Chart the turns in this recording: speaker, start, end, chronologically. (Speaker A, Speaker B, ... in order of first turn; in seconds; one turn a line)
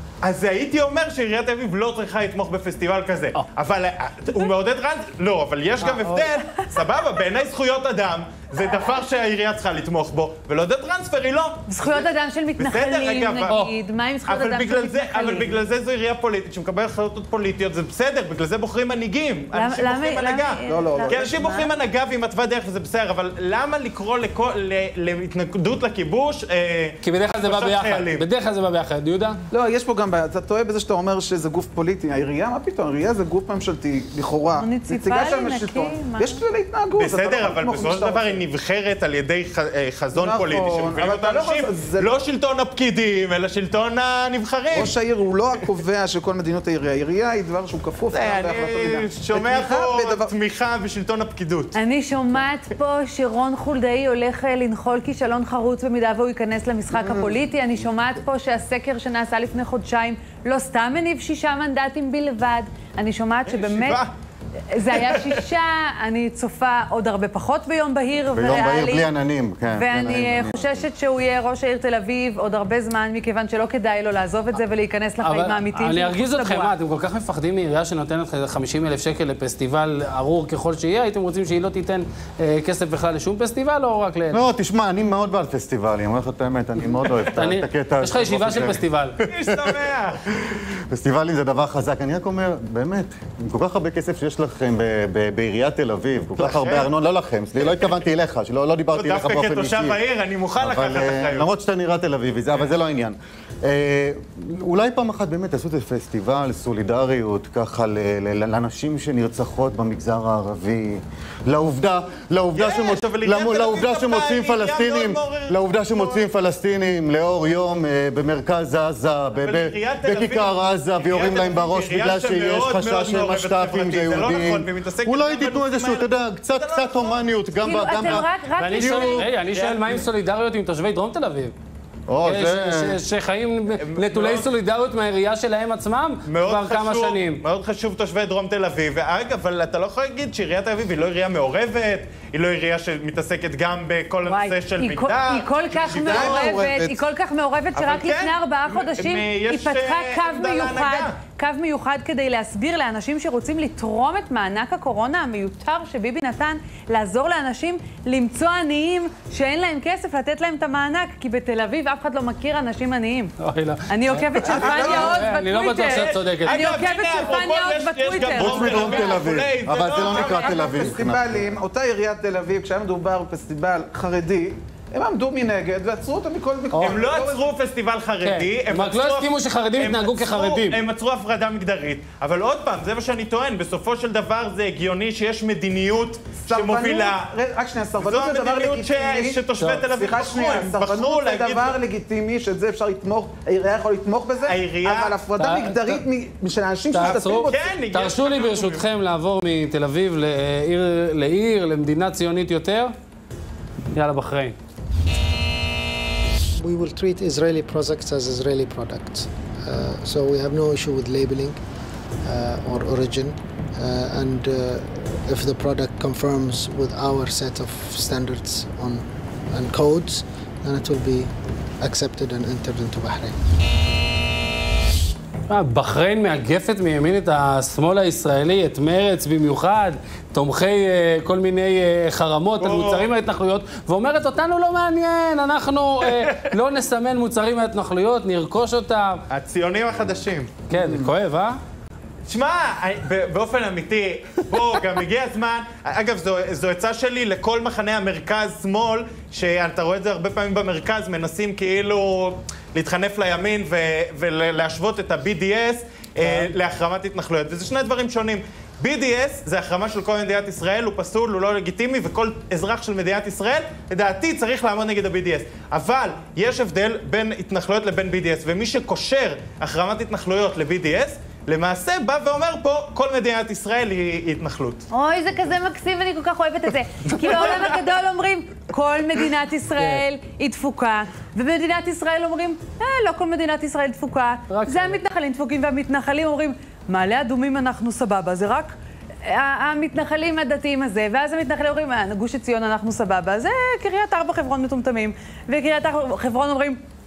Speaker A: 0.2-13.7
Speaker B: 5.8-6.2
Speaker C: 11.7-15.5
Speaker B: 13.5-13.7
Speaker A: 14.3-28.2
Speaker C: 19.5-21.7
Speaker D: 20.7-21.4
Speaker B: 27.0-29.4
Speaker D: 29.5-38.4
Speaker C: 34.5-36.4
Speaker A: 37.0-44.9
Speaker D: 40.1-42.1
Speaker D: 44.7-50.3
Speaker A: 48.1-51.8
Speaker C: 51.7-64.0
Speaker D: 56.9-57.3
Speaker A: 63.5-64.1
Speaker C: 64.7-69.1
Speaker A: 65.0-65.4
Speaker E: 68.3-70.8
Speaker C: 69.7-76.7
Speaker B: 75.2-84.4
Speaker E: 84.3-89.6
Speaker B: 87.3-89.2
Speaker A: 89.3-90.2
Speaker E: 90.5-100.0
Speaker A: 96.4-96.9
Speaker A: 98.9-101.5
Speaker E: 100.6-128.3
Speaker A: 112.5-116.2
Speaker A: 119.4-128.2
Speaker C: 127.6-129.3
Speaker B: 128.6-131.5
Speaker A: 128.7-130.0
Speaker E: 132.1-133.0
Speaker B: 132.2-137.4
Speaker A: 133.8-134.5
Speaker A: 136.3-146.6
Speaker C: 144.3-163.3
Speaker D: 145.8-147.0
Speaker A: 147.8-151.2
Speaker B: 163.4-166.6
Speaker C: 163.9-169.1
Speaker D: 164.4-165.2
Speaker A: 165.8-170.9
Speaker E: 168.3-171.5
Speaker D: 170.3-177.5
Speaker A: 176.8-187.3
Speaker B: 178.2-180.8
Speaker D: 186.4-197.6
Speaker A: 188.0-191.8
Speaker A: 194.4-195.2
Speaker B: 195.4-196.0
Speaker B: 196.9-202.9
Speaker A: 197.1-198.9
Speaker B: 203.9-204.6
Speaker F: 206.6-211.6
Speaker F: 212.2-223.4
Speaker B: 225.5-239.2
Speaker A: 232.6-233.1
Speaker A: 236.1-236.5
Speaker A: 239.3-240.6
Speaker B: 240.7-241.6
Speaker D: 240.7-241.1
Speaker A: 242.3-274.9
Speaker C: 274.9-288.7
Speaker B: 279.8-280.1
Speaker B: 284.5-285.0
Speaker C: 289.2-296.8